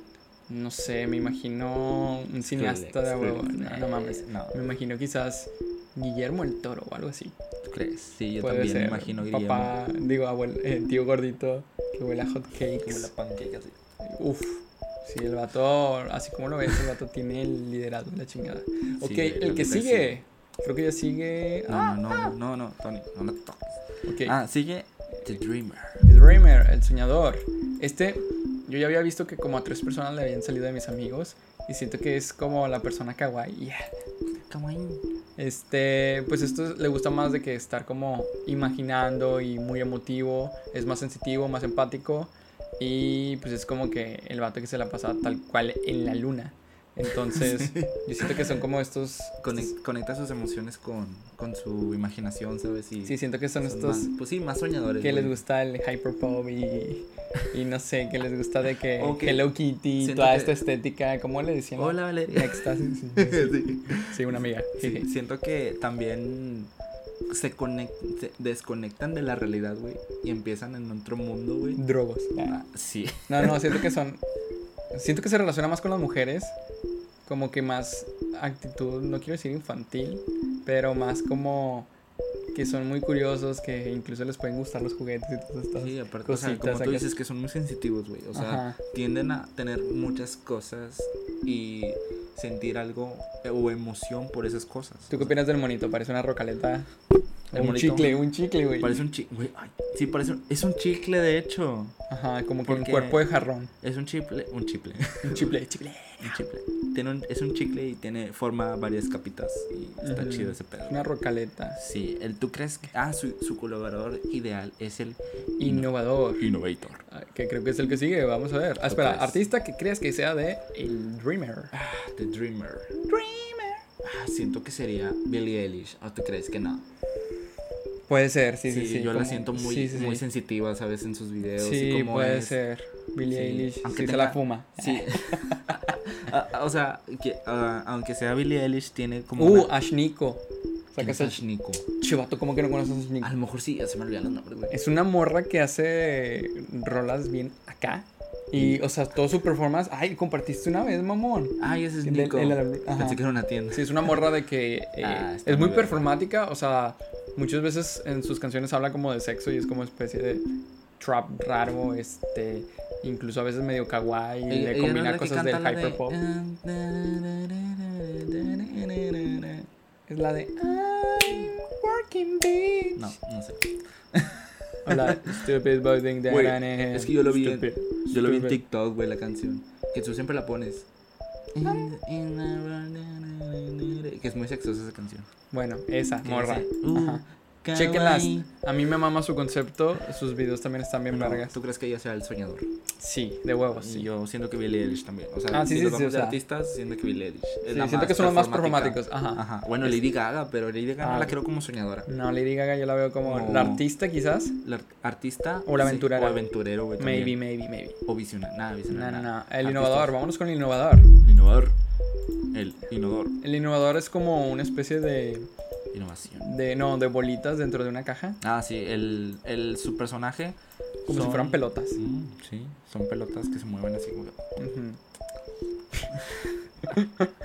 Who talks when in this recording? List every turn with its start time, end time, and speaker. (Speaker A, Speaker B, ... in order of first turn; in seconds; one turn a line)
Speaker A: 0.5-7.3
Speaker B: 2.5-4.7
Speaker B: 7.6-9.8
Speaker A: 8.4-13.1
Speaker B: 12.6-13.8
Speaker A: 14.0-22.3
Speaker B: 19.0-20.2
Speaker B: 21.7-26.0
Speaker A: 24.1-24.3
Speaker A: 26.0-33.9
Speaker B: 34.3-35.0
Speaker A: 35.4-49.7
Speaker B: 47.3-48.3
Speaker B: 49.4-55.4
Speaker A: 53.0-54.1
Speaker A: 55.0-65.1
Speaker B: 59.0-60.6
Speaker B: 61.8-66.7
Speaker B: 67.3-71.8
Speaker A: 71.8-72.6
Speaker B: 72.4-73.8
Speaker A: 73.3-74.2
Speaker A: 74.9-76.5
Speaker A: 77.2-81.9
Speaker A: 82.5-87.2
Speaker B: 85.7-95.3
Speaker A: 88.3-88.8
Speaker A: 95.1-96.9
Speaker B: 97.5-98.2
Speaker A: 97.5-99.0
Speaker B: 98.8-102.0
Speaker A: 102.1-103.7
Speaker B: 102.6-103.2
Speaker B: 103.8-105.5
Speaker A: 105.2-106.4
Speaker B: 106.2-111.1
Speaker A: 110.0-111.8
Speaker B: 111.8-117.0
Speaker A: 115.6-116.5
Speaker A: 117.1-121.7
Speaker B: 118.9-119.4
Speaker B: 121.7-123.0
Speaker A: 123.0-123.8
Speaker B: 124.0-126.8
Speaker A: 128.1-130.2
Speaker B: 128.7-132.6
Speaker A: 131.6-135.9
Speaker B: 133.3-139.7
Speaker A: 139.4-141.4
Speaker B: 141.0-141.8
Speaker A: 142.0-143.3
Speaker B: 143.2-144.8
Speaker A: 144.7-153.2
Speaker B: 148.5-148.8
Speaker B: 151.6-154.2
Speaker A: 153.7-160.4
Speaker B: 155.0-156.1
Speaker A: 161.0-166.2
Speaker B: 164.5-169.7
Speaker A: 170.1-173.1
Speaker B: 172.9-175.4
Speaker A: 174.8-178.6
Speaker B: 176.3-180.9
Speaker B: 181.5-185.3
Speaker A: 185.5-191.5
Speaker B: 186.2-188.5
Speaker B: 191.1-192.7
Speaker A: 193.0-194.1
Speaker B: 193.7-202.1
Speaker A: 195.5-196.4
Speaker A: 197.7-200.0
Speaker A: 201.0-201.3
Speaker A: 202.1-204.6
Speaker B: 203.2-203.8
Speaker B: 204.6-207.4
Speaker A: 205.7-206.4
Speaker A: 207.0-208.0
Speaker B: 208.1-210.2
Speaker A: 208.9-211.1
Speaker B: 211.2-211.7
Speaker B: 212.5-213.4
Speaker A: 213.4-215.5
Speaker B: 215.9-216.4
Speaker A: 216.4-218.4
Speaker B: 218.4-224.4
Speaker A: 221.1-222.0
Speaker A: 224.6-225.0
Speaker A: 226.9-227.2